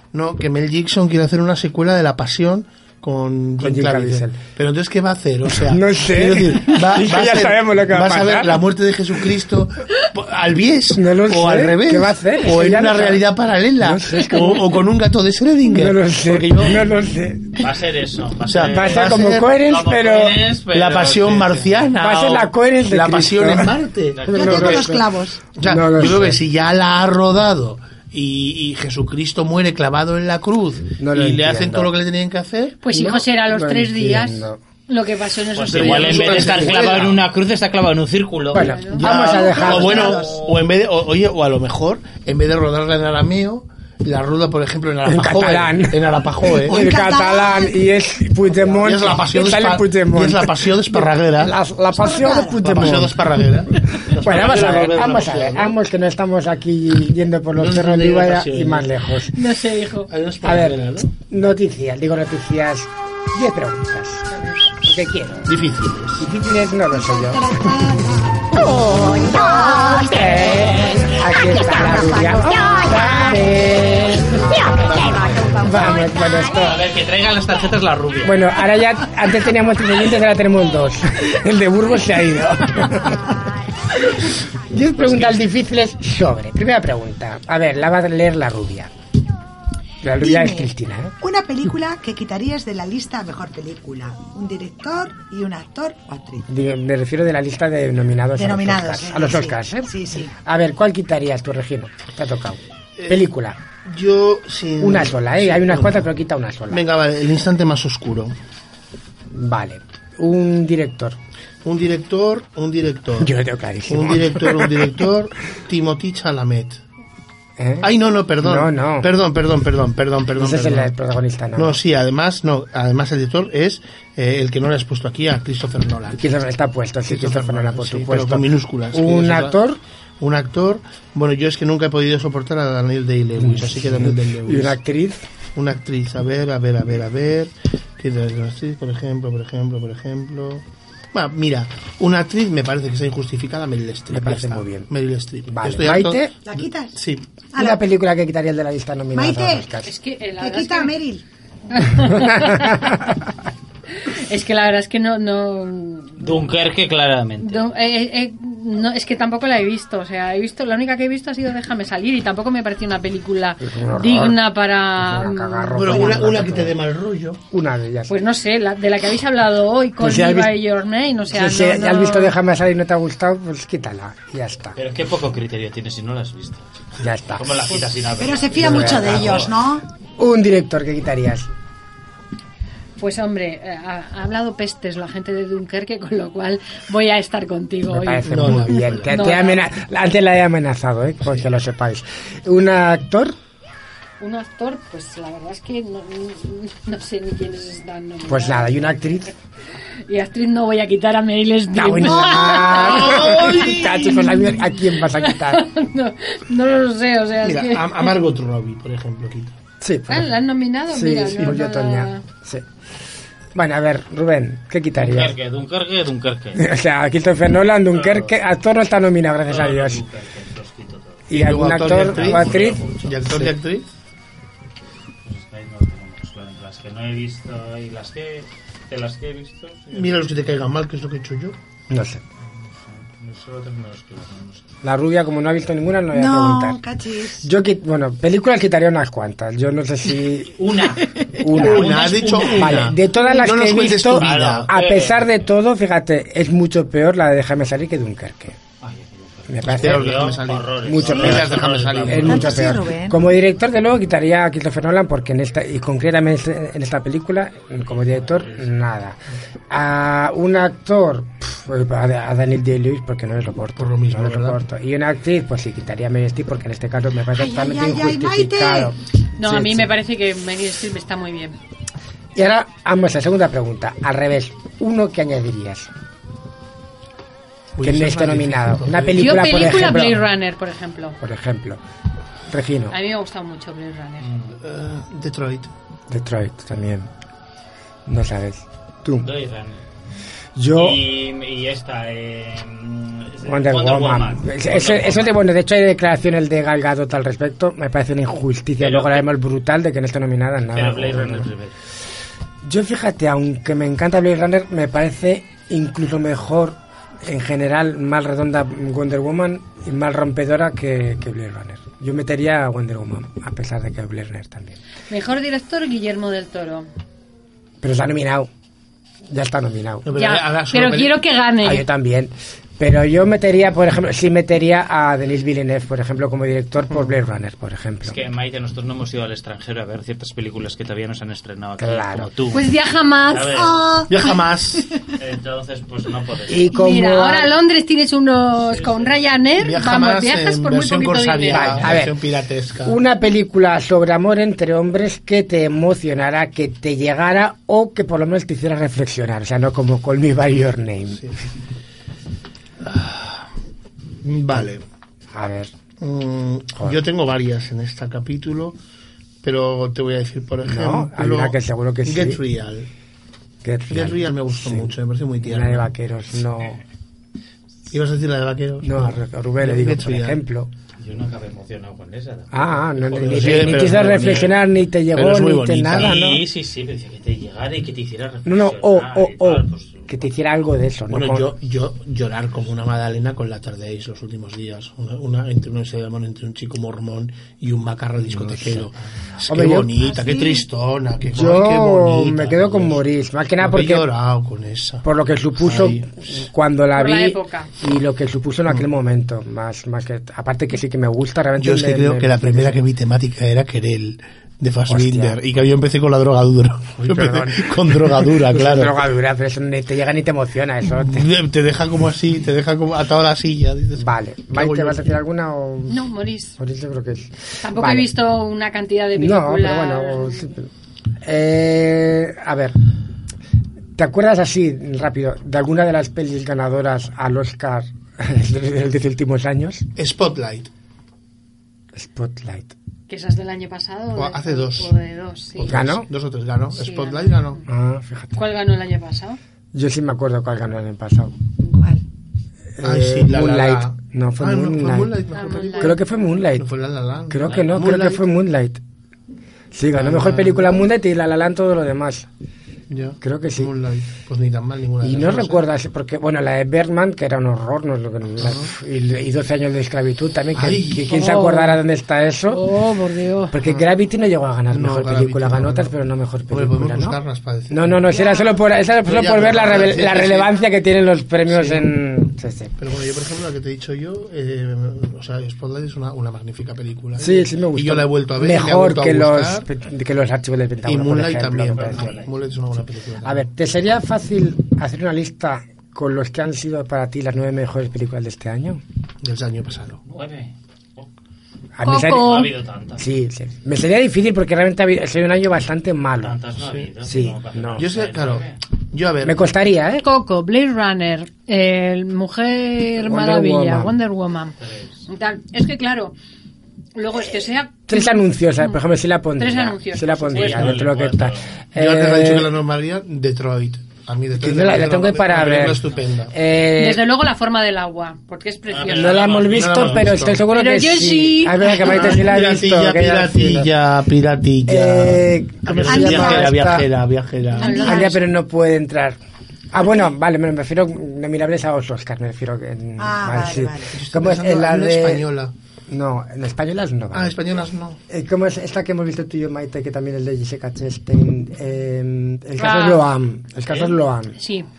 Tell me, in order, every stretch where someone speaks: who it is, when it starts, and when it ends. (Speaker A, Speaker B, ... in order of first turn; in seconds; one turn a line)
Speaker A: 0.1-16.8
Speaker B: 3.6-4.4
Speaker B: 5.5-8.6
Speaker B: 11.0-13.2
Speaker B: 13.8-14.7
Speaker B: 15.7-17.6
Speaker C: 17.6-21.9
Speaker A: 18.5-19.5
Speaker B: 18.7-20.4
Speaker A: 20.7-24.8
Speaker B: 22.0-23.7
Speaker C: 24.2-24.6
Speaker B: 24.3-25.1
Speaker D: 24.3-25.4
Speaker A: 25.6-32.8
Speaker B: 25.6-26.4
Speaker B: 31.0-31.9
Speaker E: 32.8-36.9
Speaker B: 32.9-34.6
Speaker C: 35.5-38.8
Speaker A: 35.7-37.2
Speaker B: 38.5-40.1
Speaker E: 38.6-39.1
Speaker A: 38.9-46.8
Speaker D: 39.0-40.4
Speaker C: 39.7-40.6
Speaker B: 45.1-53.1
Speaker D: 46.6-47.8
Speaker D: 48.4-49.0
Speaker A: 48.8-51.5
Speaker D: 51.9-52.8
Speaker A: 52.6-55.7
Speaker B: 53.9-59.3
Speaker C: 54.1-55.5
Speaker A: 57.6-58.9
Speaker E: 59.3-60.1
Speaker A: 60.1-61.1
Speaker B: 60.4-64.3
Speaker B: 64.8-65.5
Speaker A: 65.5-66.3
Speaker B: 66.2-67.7
Speaker D: 66.9-70.6
Speaker B: 69.9-74.4
Speaker D: 71.4-73.4
Speaker A: 74.9-75.4
Speaker D: 75.2-76.2
Speaker B: 75.6-76.8
Speaker C: 76.5-78.5
Speaker B: 78.2-83.3
Speaker B: 84.1-88.9
Speaker C: 85.0-85.4
Speaker B: 90.0-91.2
Speaker D: 90.2-96.5
Speaker B: 96.5-99.9
Speaker D: 98.3-100.3
Speaker B: 100.4-103.6
Speaker A: 103.0-103.3
Speaker A: 103.8-106.1
Speaker B: 104.8-106.8
Speaker A: 106.7-108.3
Speaker B: 109.3-111.2
Speaker A: 111.6-113.3
Speaker B: 113.2-114.7
Speaker A: 113.9-116.8
Speaker B: 117.6-117.9
Speaker A: 117.8-120.9
Speaker B: 118.4-119.1
Speaker B: 120.4-121.8
Speaker A: 121.6-126.3
Speaker B: 126.2-129.8
Speaker A: 127.1-129.6
Speaker A: 130.2-134.8
Speaker B: 133.4-135.2
Speaker A: 135.6-147.3
Speaker B: 144.1-144.9
Speaker B: 145.5-146.3
Speaker D: 146.4-147.0
Speaker D: 147.5-147.9
Speaker B: 147.6-149.9
Speaker D: 149.1-149.7
Speaker E: 149.8-150.9
Speaker D: 150.4-151.2
Speaker E: 151.7-153.1
Speaker E: 154.1-156.4
Speaker C: 156.2-157.7
Speaker E: 157.4-166.2
Speaker B: 163.6-164.4
Speaker B: 165.0-166.8
Speaker A: 165.8-167.4
Speaker B: 167.5-168.1
Speaker E: 168.1-172.3
Speaker B: 170.0-170.5
Speaker B: 171.3-174.8
Speaker C: 174.8-176.7
Speaker B: 177.0-177.6
Speaker C: 177.4-179.6
Speaker D: 178.2-179.8
Speaker B: 178.6-179.4
Speaker B: 180.2-181.5
Speaker E: 183.0-189.6
Speaker B: 187.9-193.4
Speaker A: 188.3-189.2
Speaker E: 194.2-199.1
Speaker B: 198.3-199.3
Speaker E: 200.1-208.1
Speaker B: 201.7-205.6
Speaker A: 202.7-203.8
Speaker A: 207.4-209.6
Speaker B: 209.8-210.3
Speaker E: 210.1-212.2
Speaker B: 210.9-212.7
Speaker B: 213.6-215.3
Speaker C: 215.0-216.7
Speaker B: 216.6-220.0
Speaker C: 217.9-218.4
Speaker C: 219.5-223.3
Speaker B: 221.3-222.8
Speaker A: 221.3-223.9
Speaker C: 225.2-230.2
Speaker A: 229.9-231.6
Speaker B: 231.9-232.2
Speaker C: 232.5-234.7
Speaker B: 234.8-236.8
Speaker D: 236.1-237.5
Speaker B: 237.4-240.5
Speaker C: 240.6-242.9
Speaker B: 241.4-248.6
Speaker A: 241.5-244.7
Speaker C: 244.2-245.3
Speaker C: 248.8-252.7
Speaker B: 249.5-250.3
Speaker A: 249.6-252.7
Speaker B: 250.8-259.2
Speaker D: 251.0-251.4
Speaker D: 252.2-253.2
Speaker C: 257.9-258.7
Speaker B: 259.7-269.9
Speaker A: 263.8-264.6
Speaker D: 267.3-269.0
Speaker E: 269.4-271.6
Speaker B: 272.4-275.9
Speaker A: 277.8-280.0
Speaker B: 277.8-280.2
Speaker E: 279.2-281.2
Speaker B: 281.2-281.8
Speaker B: 282.5-283.0
Speaker E: 282.9-284.3
Speaker C: 284.2-284.6
Speaker A: 284.6-285.7
Speaker B: 286.1-287.1
Speaker B: 288.1-289.3
Speaker C: 289.2-289.8
Speaker B: 290.6-291.0
Speaker C: 290.8-295.4
Speaker B: 293.5-301.5
Speaker C: 298.8-299.3
Speaker C: 300.7-301.7
Speaker B: 302.6-314.8
Speaker E: 315.1-316.9
Speaker B: 317.8-318.5
Speaker B: 319.3-320.1
Speaker A: 320.1-321.2
Speaker E: 320.1-321.9
Speaker B: 321.6-328.2
Speaker C: 328.0-332.8
Speaker B: 331.8-332.3
Speaker E: 332.5-333.7
Speaker C: 333.3-334.0
Speaker D: 333.6-334.1
Speaker A: 334.1-334.9
Speaker C: 335.2-336.7
Speaker B: 336.5-337.5
Speaker E: 336.7-341.9
Speaker C: 338.7-339.4
Speaker A: 339.6-343.0
Speaker B: 341.5-342.2
Speaker B: 342.9-351.2
Speaker A: 352.8-353.5
Speaker A: 354.2-354.8
Speaker B: 355.3-355.7
Speaker A: 356.0-358.8
Speaker A: 359.4-362.9
Speaker B: 360.6-362.4
Speaker B: 363.6-366.8
Speaker A: 363.9-365.9
Speaker A: 367.9-370.4
Speaker B: 368.8-370.7
Speaker C: 371.0-374.6
Speaker B: 372.5-376.4
Speaker A: 373.1-374.5
Speaker A: 375.1-376.2
Speaker C: 375.9-380.1
Speaker B: 378.5-381.5
Speaker A: 381.1-393.0
Speaker B: 388.3-388.9
Speaker B: 389.5-389.9
Speaker D: 390.0-390.6
Speaker B: 391.2-394.1
Speaker A: 393.6-395.1
Speaker B: 395.0-402.8
Speaker A: 395.6-396.2
Speaker E: 396.9-397.7
Speaker A: 401.6-409.0
Speaker B: 404.9-405.4
Speaker B: 407.0-411.3
Speaker A: 410.9-415.1
Speaker B: 414.0-416.0
Speaker E: 415.9-416.6
Speaker B: 416.6-418.1
Speaker E: 417.6-420.5
Speaker B: 419.2-420.7
Speaker B: 421.2-422.8
Speaker B: 424.0-429.9
Speaker A: 430.0-430.7
Speaker B: 431.9-432.7
Speaker E: 433.1-435.8
Speaker A: 434.1-434.9
Speaker A: 435.6-437.6
Speaker B: 435.7-436.1
Speaker E: 436.7-437.6
Speaker B: 437.7-438.4
Speaker E: 438.4-439.4
Speaker B: 439.7-441.3
Speaker D: 441.6-442.0
Speaker B: 442.8-445.1
Speaker A: 442.8-446.0
Speaker E: 445.3-446.0
Speaker B: 445.8-446.7
Speaker A: 446.6-448.2
Speaker B: 447.3-448.8
Speaker B: 449.7-452.3
Speaker A: 449.9-450.9
Speaker A: 452.9-455.6
Speaker B: 453.2-453.7
Speaker B: 455.0-462.6
Speaker A: 458.4-458.7
Speaker A: 460.6-461.1
Speaker E: 461.1-461.8
Speaker E: 462.5-463.5
Speaker B: 463.5-467.2
Speaker A: 464.7-466.0
Speaker A: 466.5-468.1
Speaker B: 467.7-472.8
Speaker A: 469.1-470.6
Speaker A: 471.5-471.9
Speaker A: 472.8-479.7
Speaker B: 477.2-482.1
Speaker A: 480.9-483.5
Speaker C: 481.7-482.3
Speaker B: 483.2-488.8
Speaker A: 489.2-490.0
Speaker C: 490.1-491.1
Speaker B: 491.8-496.4
Speaker E: 491.8-492.5
Speaker C: 492.1-493.0
Speaker C: 496.2-498.6
Speaker A: 496.6-496.9
Speaker B: 497.0-497.8
Speaker A: 497.8-499.4
Speaker B: 499.2-500.1
Speaker E: 500.0-504.6
Speaker B: 503.0-503.9
Speaker C: 504.6-505.0
Speaker E: 505.1-506.1
Speaker E: 506.9-508.8
Speaker B: 507.9-512.5
Speaker E: 509.4-510.5
Speaker C: 510.3-511.5
Speaker A: 510.4-510.8
Speaker A: 511.8-516.3
Speaker B: 514.4-515.8
Speaker B: 516.3-517.0
Speaker E: 516.8-519.2
Speaker C: 518.7-520.1
Speaker B: 518.9-523.7
Speaker A: 519.3-520.4
Speaker E: 520.5-522.1
Speaker A: 521.8-527.9
Speaker B: 524.7-526.9
Speaker D: 525.9-526.6
Speaker D: 527.6-528.2
Speaker E: 527.6-528.2
Speaker B: 527.8-529.2
Speaker B: 529.7-535.2
Speaker D: 533.0-534.0
Speaker A: 533.9-535.5
Speaker B: 535.9-537.4
Speaker A: 537.1-538.0
Speaker B: 538.1-544.4
Speaker E: 542.6-543.0
Speaker E: 544.4-544.7